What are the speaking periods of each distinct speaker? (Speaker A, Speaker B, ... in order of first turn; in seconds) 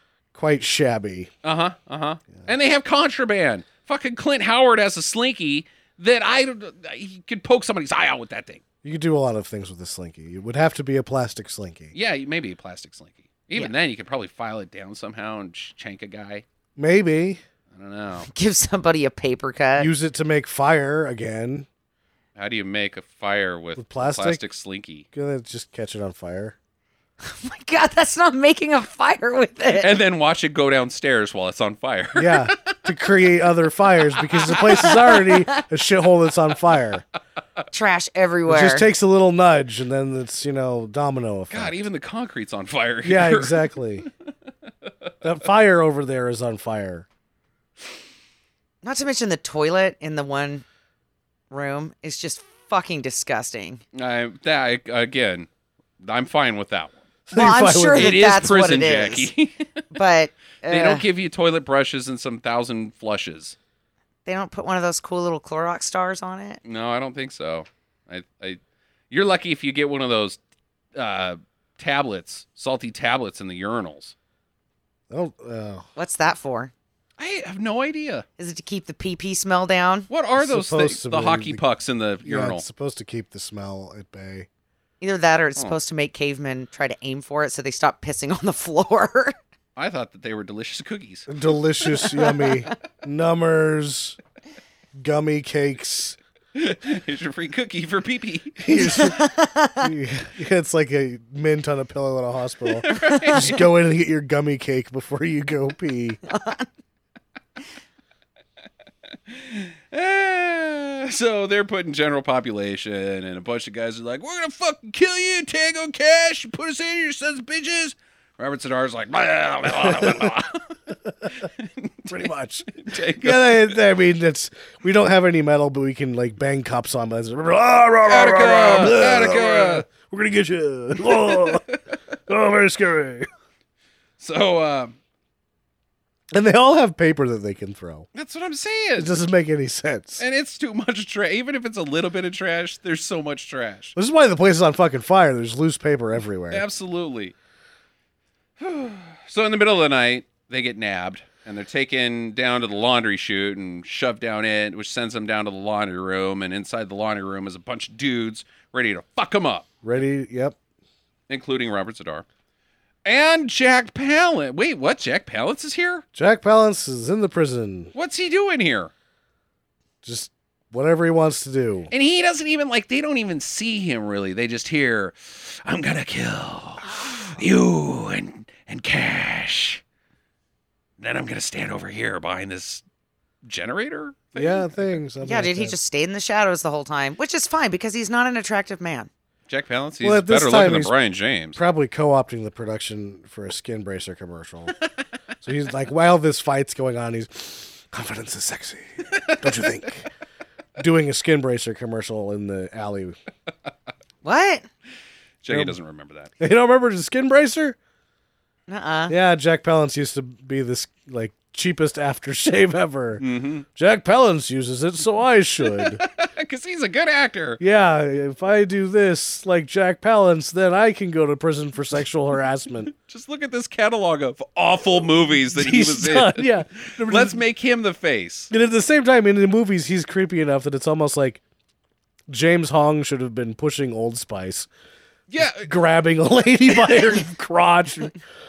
Speaker A: 0.3-1.3, 8.8-11.9, 16.8-17.4, 19.8-21.7, 23.8-24.4, 25.1-26.6, 32.1-37.0, 38.5-41.8, 43.0-44.1, 45.2-47.1, 57.3-58.2, 75.1-75.9, 80.4-81.6, 82.2-84.5, 91.3-94.2, 95.0-96.2, 98.6-99.2, 99.8-106.2, 119.8-120.3, 122.1-131.7, 132.3-133.3, 136.3-138.1, 139.0-140.2, 144.0-146.6, 159.8-160.6, 166.1-167.9, 170.0-171.9, 184.3-185.8, 190.0-190.9, 191.6-194.8, 195.4-200.1, 200.8-203.2, 205.5-205.8, 206.4-207.8, 209.1-213.2, 213.8-216.0, 217.6-222.9, 225.5-227.4, 228.5-231.4, 232.3-234.7, 235.5-238.2
Speaker B: 1.4-8.6, 11.9-16.4, 17.7-18.3, 22.4-25.1, 29.8-32.8, 41.5-44.1, 53.9-55.5, 56.0-57.0, 57.9-59.8, 60.7-63.6, 66.6-70.4, 71.0-74.1, 77.2-78.2, 80.1-82.7, 89.8-91.3, 96.5-98.6, 102.8-103.6, 109.3-120.8, 121.3-123.8, 128.1-129.9, 131.0-131.9, 134.2-135.0, 138.1-139.2, 140.2-143.9, 146.5-147.3, 148.6-159.7, 161.3-162.2, 163.1-166.0, 167.9-168.9, 171.9-179.8, 181.0-182.8, 183.4-184.9, 189.5-191.6, 199.1-199.5, 205.4-206.3, 213.2-213.7, 215.7-217.6, 222.9-228.5, 235.3-235.7
Speaker C: 18.3-19.9, 27.2-29.9, 34.6-35.6, 37.7-38.9, 48.8-50.6, 51.5-53.8, 57.3-59.3, 59.9-61.1, 64.2-66.6, 76.0-76.7, 78.4-80.1, 85.0-89.3, 92.1-92.6, 98.8-99.9, 102.9-103.5, 106.3-106.7, 185.2-189.1, 204.2-204.7, 208.7-209.1